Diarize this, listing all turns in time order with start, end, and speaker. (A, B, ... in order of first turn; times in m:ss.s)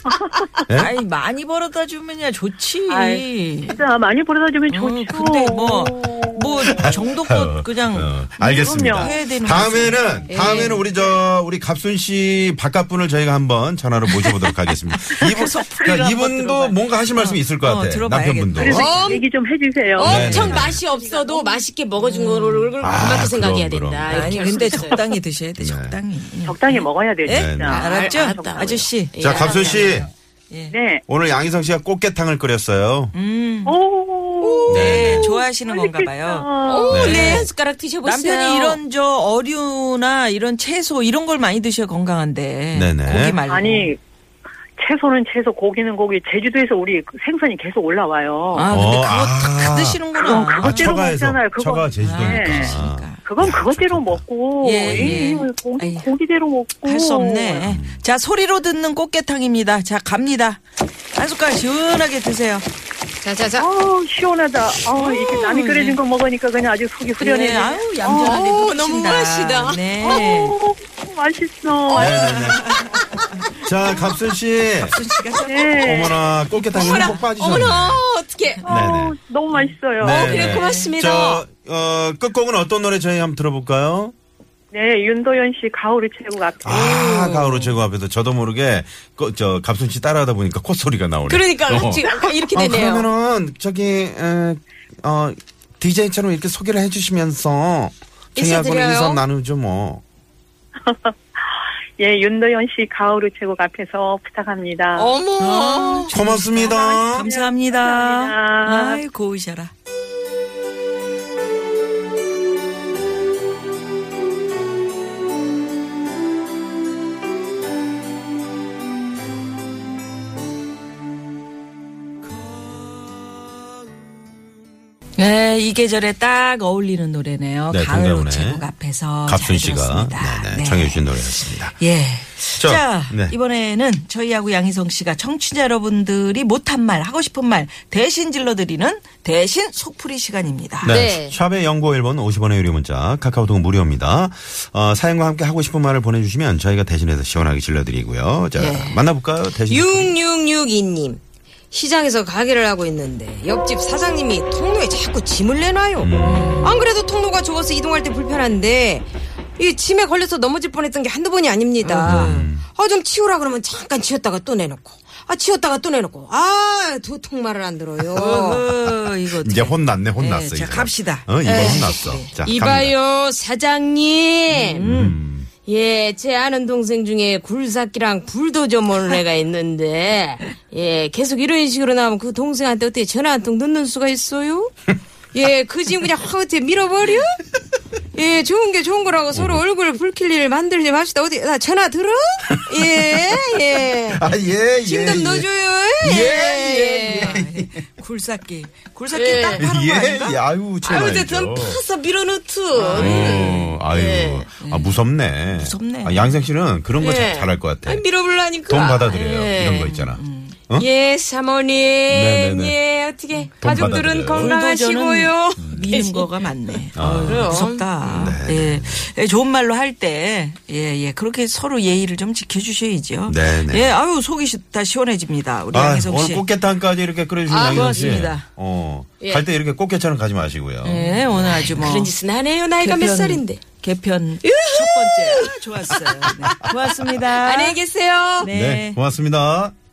0:00.7-0:00.9 A
0:00.7-0:03.8 B
0:02.9-0:06.9 C
0:04.7-0:10.7 B
0:06.7-0:18.9 A
0:08.4-0:09.2 C
0:10.3-0:10.9 D
0:15.5-0:19.2 B
0:18.6-0:20.4 C
0:18.7-0:19.2 D
0:20.0-0:25.0 D
0:20.0-0:20.8 B
0:20.0-0:20.8 A
0:21.0-0:21.5 C
0:22.0-0:22.7 B
0:22.8-0:24.4 A
0:24.1-0:30.0 B
0:24.7-0:25.0 C
0:25.6-0:26.0 A
0:26.4-0:28.9 C
0:27.3-0:27.8 A
0:27.7-0:30.0 D
0:29.1-0:30.1 A
0:29.5-0:29.9 C
0:30.7-0:31.0 C
0:31.1-0:33.2 A
0:33.1-0:33.8 B
0:33.7-0:34.7 C
0:34.4-0:35.5 D
0:34.7-0:37.5 B
0:34.7-0:35.3 A
0:35.6-0:37.1 C
0:36.7-0:38.8 D
0:36.9-0:37.5 A
0:38.0-0:43.9 B
0:42.7-0:43.4 A
0:43.5-0:44.0 C
0:44.8-0:48.7 C
0:48.5-0:51.0 B
0:48.7-0:50.0 A
0:50.2-0:57.7 C
0:50.6-0:54.2 A
0:52.0-0:53.2 B
0:54.6-0:56.1 B
0:54.9-0:55.2 A
0:56.8-1:00.6 B
0:57.6-0:58.0 A
1:01.2-1:02.7 B
1:03.2-1:03.7 D
1:03.6-1:08.4 C
1:04.9-1:06.0 B
1:07.2-1:10.6 B
1:08.2-1:09.8 D
1:10.0-1:13.0 C
1:11.9-1:12.8 A
1:12.0-1:13.0 B
1:13.6-1:15.0 A
1:14.8-1:16.1 B
1:15.5-1:16.2 C
1:15.8-1:18.0 A
1:16.7-1:18.6 D
1:16.8-1:17.2 B
1:18.6-1:20.3 C
1:18.7-1:19.2 A
1:20.0-1:24.1 A
1:20.0-1:21.4 D
1:20.1-1:20.9 B
1:24.7-1:27.1 C
1:26.6-1:40.0 A
1:26.7-1:27.8 D
1:31.3-1:33.1 D
1:38.4-1:39.2 D
1:40.9-1:41.1 C
1:42.0-1:45.1 C
1:45.0-1:46.1 D
1:45.4-1:49.7 B
1:46.1-1:47.2 A
1:46.6-1:49.0 C
2:05.2-2:21.0 B
2:07.7-2:08.7 A
2:09.3-2:11.8 A
2:12.6-2:13.4 A
2:20.8-2:30.1 A
2:20.9-2:21.4 D
2:28.6-2:29.0 D
2:29.7-2:48.6 D
2:36.0-2:36.7 A
2:36.2-2:36.9 B
2:41.8-2:42.5 B
2:42.0-2:42.7 A
2:48.2-2:52.3 B
2:48.2-2:48.4 A
2:49.4-2:53.0 A
2:51.4-2:54.9 D
2:54.5-2:55.2 B
2:54.8-2:55.5 A
2:55.6-3:04.8 D
3:05.3-3:07.4 D
3:08.1-3:14.2 D
3:09.3-3:09.6 A
3:12.8-3:13.3 A
3:14.1-3:15.5 A
3:14.8-3:17.4 D
3:16.0-3:17.8 A
3:16.2-3:20.4 B
3:19.1-3:19.6 D
3:19.6-3:21.8 A
3:20.8-3:24.5 D
3:22.8-3:23.8 B
3:22.9-3:28.1 A
3:24.6-3:26.4 B
3:27.0-3:29.9 D
3:28.7-3:30.9 A
3:29.8-3:30.6 B
3:30.8-3:36.3 D
3:32.1-3:32.8 A
3:33.6-3:34.6 A
3:33.8-3:46.5 B
3:35.6-3:35.9 A
3:37.0-3:39.1 A
3:37.2-3:37.9 D
3:43.3-3:44.0 A
3:45.7-3:51.0 A
3:47.5-3:48.3 D
3:47.7-3:48.4 B
3:49.2-3:49.5 D
3:50.8-3:52.1 B
3:51.1-3:53.6 D
3:52.8-3:57.8 B
3:54.5-3:58.5 D
3:58.4-3:59.0 B
3:58.4-3:59.7 A